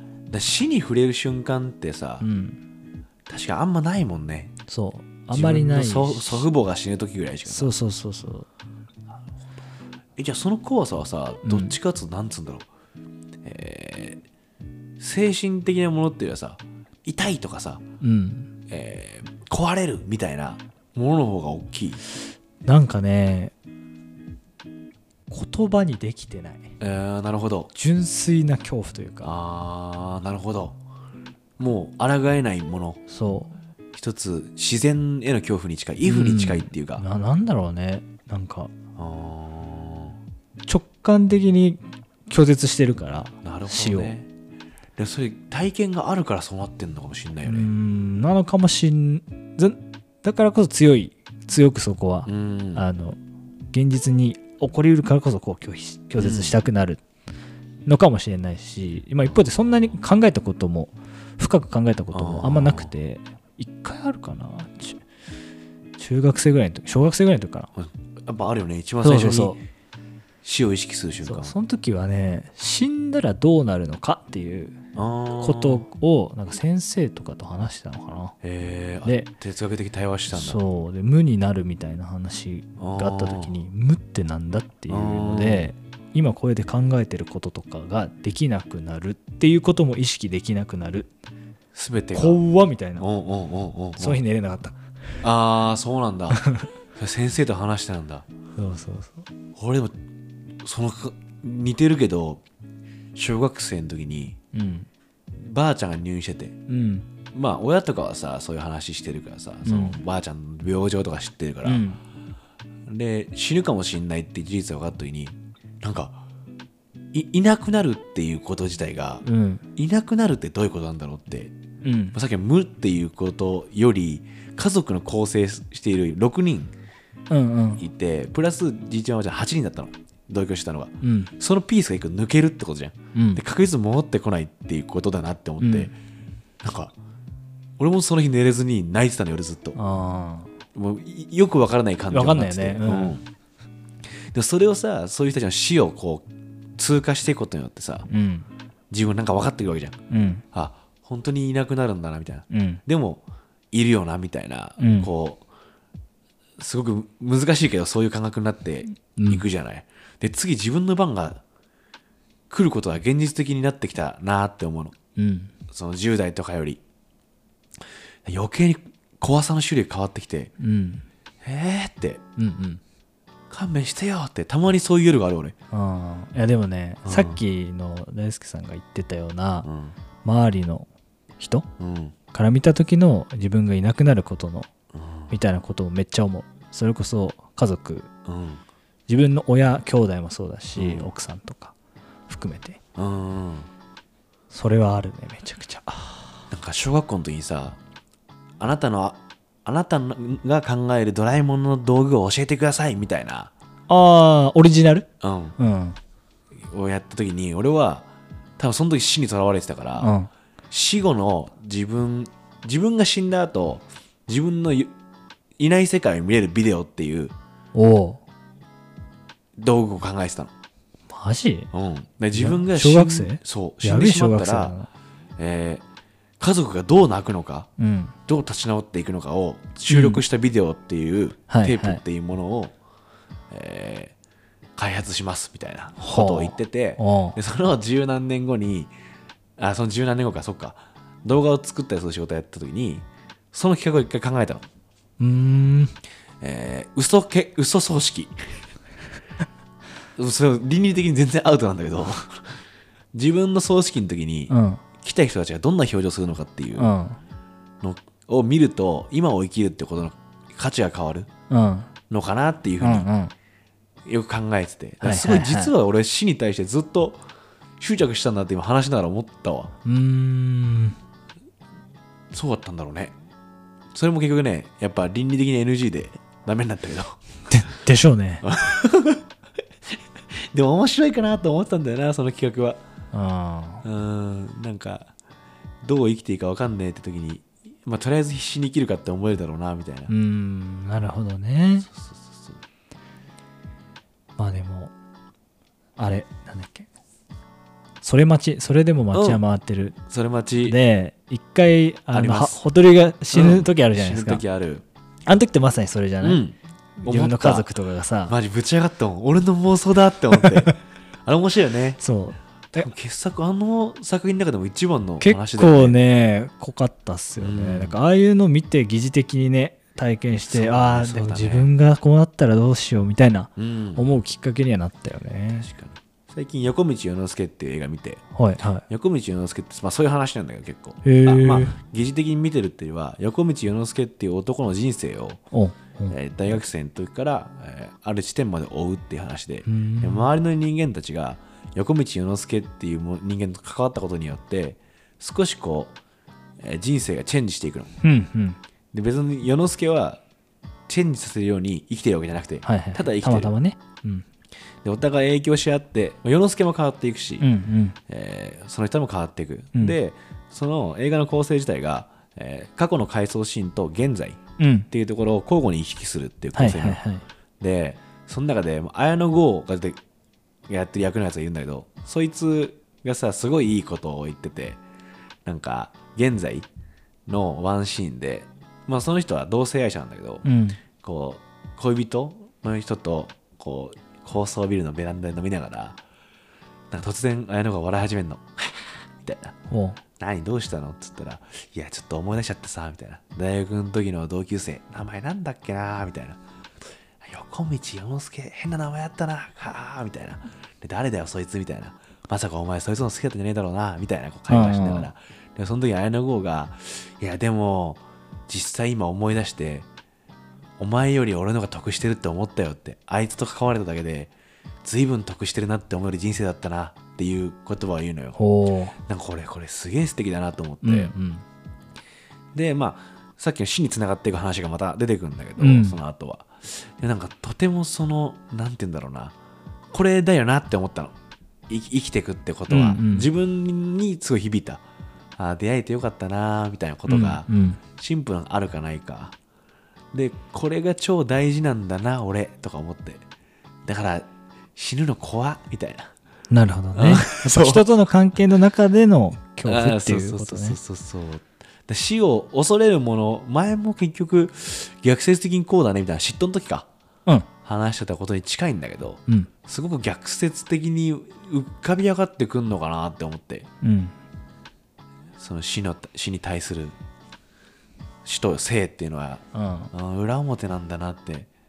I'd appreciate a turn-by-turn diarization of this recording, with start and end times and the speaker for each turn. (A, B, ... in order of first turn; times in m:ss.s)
0:00.3-0:02.3 A
0:02.2-0:02.6 B
0:03.3-0:04.5 A
0:04.7-0:06.5 B
0:05.3-0:07.7 A
0:07.5-0:08.5 B
0:10.2-0:12.7 A
0:11.4-0:11.7 B
0:13.4-0:14.2 A
0:15.0-0:17.8 A
0:18.0-0:18.5 B
0:18.7-0:22.0 A
0:22.6-0:23.5 B
0:25.3-0:26.7 B
0:26.8-0:27.7 A
0:27.7-0:29.3 B
0:29.2-0:30.8 A
0:31.6-0:33.0 A
0:33.1-0:33.5 B
0:33.9-0:37.0 A
0:36.0-0:38.7 B
0:39.0-0:40.2 A
0:40.6-0:44.1 B
0:43.4-0:44.3 A
0:45.0-0:47.7 A
0:47.4-0:53.2 B
0:52.2-0:52.8 A
0:53.7-0:57.0 B
0:56.2-0:56.6 A
0:57.8-1:05.0 B
1:02.1-1:02.9 A
1:06.0-1:07.7 B
1:07.8-1:09.6 A
1:09.0-1:09.6 B
1:10.4-1:11.5 A
1:11.2-1:14.8 B
1:14.9-1:15.8 A
1:15.4-1:18.4 B
1:18.4-1:20.6 A
1:20.3-1:31.1 B
1:22.8-1:23.5 A
1:24.9-1:25.7 A
1:31.7-1:32.4 A
1:32.1-1:33.1 B
1:33.0-1:34.2 A
1:34.0-1:34.8 B
1:35.2-1:36.4 A
1:36.3-1:36.7 B
1:37.0-1:38.2 A
1:38.6-1:39.2 B
1:39.5-1:39.9 A
1:40.6-1:42.4 A
1:43.1-1:44.4 A
1:44.5-1:44.9 B
1:45.4-1:46.6 A
1:46.7-1:47.0 B
1:47.3-1:51.8 A
1:49.6-1:50.0 B
1:51.6-1:52.0 B
1:52.9-1:56.2 A
1:57.1-1:59.2 A
1:59.2-1:59.6 B
1:59.8-2:01.5 A
2:01.8-2:02.1 B
2:02.1-2:06.7 A
2:07.3-2:07.8 B
2:07.8-2:15.9 A
2:11.0-2:11.3 B
2:13.1-2:13.4 B
2:15.6-2:15.9 B
2:16.6-2:16.9 A
2:17.8-2:19.8 A
2:19.8-2:20.5 B
2:20.7-2:23.2 A
2:22.1-2:23.2 B
2:24.3-2:26.2 A
2:26.8-2:28.1 A
2:28.1-2:28.5 B
2:28.9-2:30.0 A
2:30.1-2:30.4 B
2:30.5-2:35.4 A
2:32.5-2:32.8 B
2:34.8-2:35.1 B
2:36.6-2:41.4 A
2:39.2-2:39.4 B
2:42.5-2:45.0 A
2:45.2-2:45.5 B
2:45.7-2:46.8 A
2:48.2-2:50.5 A
2:50.6-2:51.0 B
2:51.4-2:52.2 A
2:52.4-2:52.8 B
2:53.5-2:55.5 A
2:55.7-2:59.7 B
2:57.0-2:57.4 A
2:59.6-3:00.0 A
3:00.2-3:00.9 B
3:01.4-3:01.7 B
3:01.8-3:02.1 A
3:02.3-3:04.7 B
3:04.9-3:05.3 A
3:05.3-3:08.1 B
3:08.2-3:08.6 A
3:09.1-3:11.7 B
3:10.8-3:11.1 A
3:12.3-3:12.8 B
3:13.0-3:13.7 A
3:14.5-3:16.4 B
3:16.5-3:17.8 A
3:18.6-3:23.5 A
3:23.9-3:26.0 B
3:25.2-3:25.6 A
3:26.6-3:28.1 A
3:28.6-3:30.1 A
3:30.0-3:30.3 B
3:30.7-3:34.9 A
3:35.6-3:37.3 A
3:37.7-3:38.2 B
3:39.6-3:40.5 A
3:41.1-3:41.7 B
3:41.7-3:44.7 A
3:42.3-3:44.9 B
3:45.4-3:45.8 A
3:46.4-3:47.7 A
3:47.8-3:48.2 B
3:48.3-3:52.7 A
3:49.9-3:50.2 B
3:51.5-3:52.0 B
3:53.5-3:54.1 A
3:54.8-3:58.9 A
3:56.0-3:57.4 B
3:59.6-4:04.6 A
4:05.2-4:05.9 B
4:06.4-4:08.6 A
4:10.2-4:12.6 A
4:13.1-4:16.9 A
4:14.5-4:14.8 B
4:16.8-4:17.2 B
4:17.8-4:21.3 A
4:21.5-4:21.9 B
4:22.1-4:23.1 A
4:22.8-4:23.3 B
4:24.0-4:27.2 A
4:25.0-4:25.7 B
4:27.8-4:29.7 A
4:29.8-4:31.0 B
4:32.3-4:33.1 A
4:33.9-4:37.2 A
4:37.5-4:38.4 B
4:38.4-4:39.3 A
4:39.9-4:42.8 A
4:43.1-4:43.8 B
4:43.8-4:45.1 A
4:45.8-4:50.1 A
4:50.1-4:51.9 B
4:51.9-4:52.6 A
4:54.4-4:54.9 B
4:56.0-4:56.9 B
4:58.0-5:00.0 B
4:59.1-4:59.4 A
5:00.1-5:00.8 A
5:00.6-5:04.4 B
5:02.1-5:02.6 A
5:03.3-5:04.8 A
5:05.3-5:06.4 B
5:06.2-5:07.7 A
5:07.0-5:08.4 B
5:08.3-5:12.0 A
5:10.3-5:10.7 B
5:12.0-5:12.9 B
5:12.7-5:16.0 A
5:15.2-5:25.7 B
5:17.4-5:18.0 A
5:20.5-5:21.7 A
5:23.6-5:24.0 A
5:25.6-5:28.2 A
5:28.3-5:28.8 B
5:28.8-5:35.4 A
5:31.0-5:31.8 B
5:35.5-5:36.6 B
5:36.1-5:45.9 A
5:39.7-5:40.3 B
5:46.6-5:47.9 A
5:48.0-5:48.6 B
5:48.9-5:50.2 A
5:50.9-5:53.5 A
5:52.6-5:54.2 B
5:54.8-5:57.5 A
5:57.4-5:58.0 B
5:58.1-6:07.0 A
6:04.6-6:04.9 B
6:06.5-6:07.2 B
6:07.6-6:10.0 A
6:10.7-6:14.8 A
6:15.4-6:16.7 A
6:17.2-6:20.4 A
6:20.4-6:20.8 B
6:21.0-6:26.0 A
6:26.9-6:29.6 A
6:29.7-6:30.0 B
6:30.2-6:36.4 A
6:37.2-6:49.9 A
6:44.5-6:45.1 B
6:50.8-6:54.3 A
6:54.8-6:58.4 A
6:58.4-6:59.0 B
6:59.0-7:01.1 A
7:00.8-7:01.4 B
7:02.5-7:09.4 A
7:05.6-7:06.0 B
7:09.9-7:11.2 A
7:11.7-7:14.8 A
7:12.7-7:13.3 B
7:15.4-7:19.3 A
7:17.1-7:17.8 B
7:20.1-7:23.2 A
7:23.8-7:26.1 A
7:26.5-7:30.8 B
7:26.9-7:27.9 A
7:29.6-7:36.9 A
7:37.6-7:43.7 A
7:43.8-7:44.2 B
7:45.4-7:47.0 A
7:48.2-7:51.5 A
7:49.5-7:49.9 B